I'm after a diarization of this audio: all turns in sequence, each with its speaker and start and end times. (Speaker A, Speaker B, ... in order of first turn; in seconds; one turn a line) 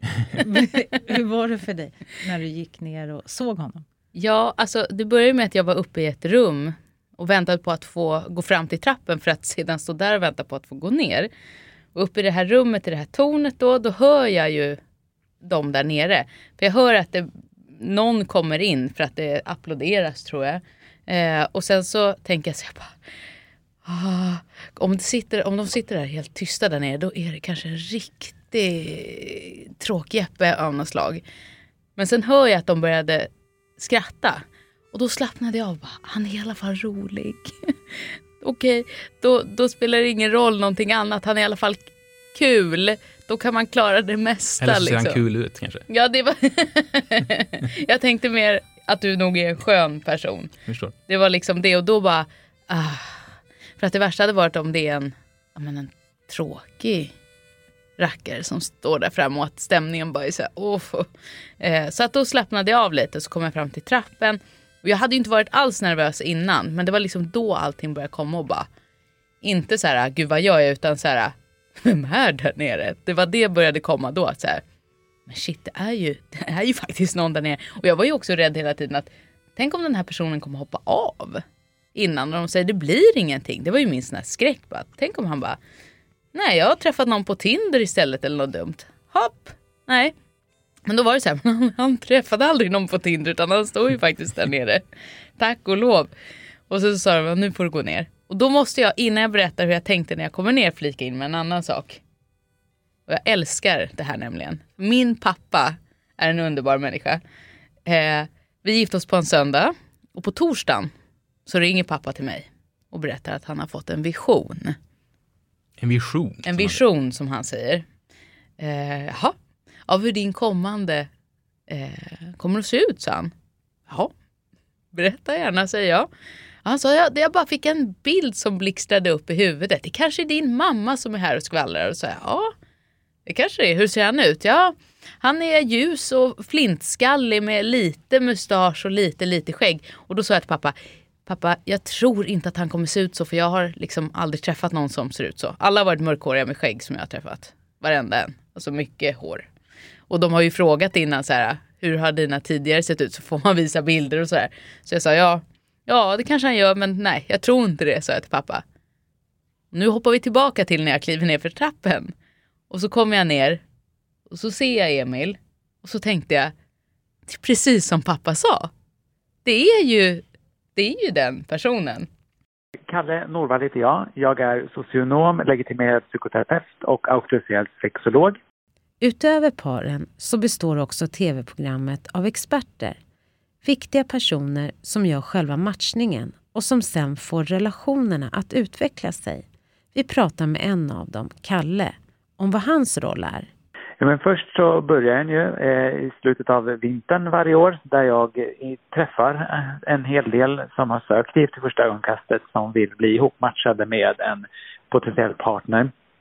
Speaker A: 0.2-3.9
Speaker B: 4.2-11.3
Speaker B: 11.9-14.8
Speaker B: 15.4-23.0
Speaker B: 23.9-31.2
Speaker B: 32.0-45.2
Speaker C: 44.6-45.9
Speaker B: 45.9-50.5
Speaker C: 50.7-51.0
Speaker B: 51.1-53.2
Speaker B: 53.8-57.1
Speaker B: 58.0-61.1
Speaker B: 61.6-68.7
Speaker B: 69.4-74.6
Speaker B: 75.3-81.4
Speaker B: 82.0-85.6
Speaker B: 86.3-90.1
Speaker B: 90.9-94.8
Speaker B: 95.4-96.1
Speaker B: 96.7-102.0
Speaker B: 103.1-107.2
Speaker B: 107.9-110.9
Speaker B: 111.5-114.8
Speaker C: 115.8-116.8
Speaker B: 116.5-117.8
Speaker B: 118.6-119.3
Speaker B: 119.9-121.1
Speaker B: 121.7-123.3
Speaker B: 124.9-126.1
Speaker B: 126.7-132.5
Speaker B: 133.3-140.8
Speaker B: 141.3-149.5
Speaker B: 150.1-158.6
Speaker B: 159.7-162.1
Speaker B: 162.7-163.6
Speaker B: 164.3-166.5
Speaker B: 167.3-168.7
Speaker B: 169.4-170.2
Speaker B: 170.8-172.1
Speaker D: 172.9-178.4
Speaker E: 179.0-183.0
Speaker E: 183.6-193.5
Speaker D: 194.0-205.9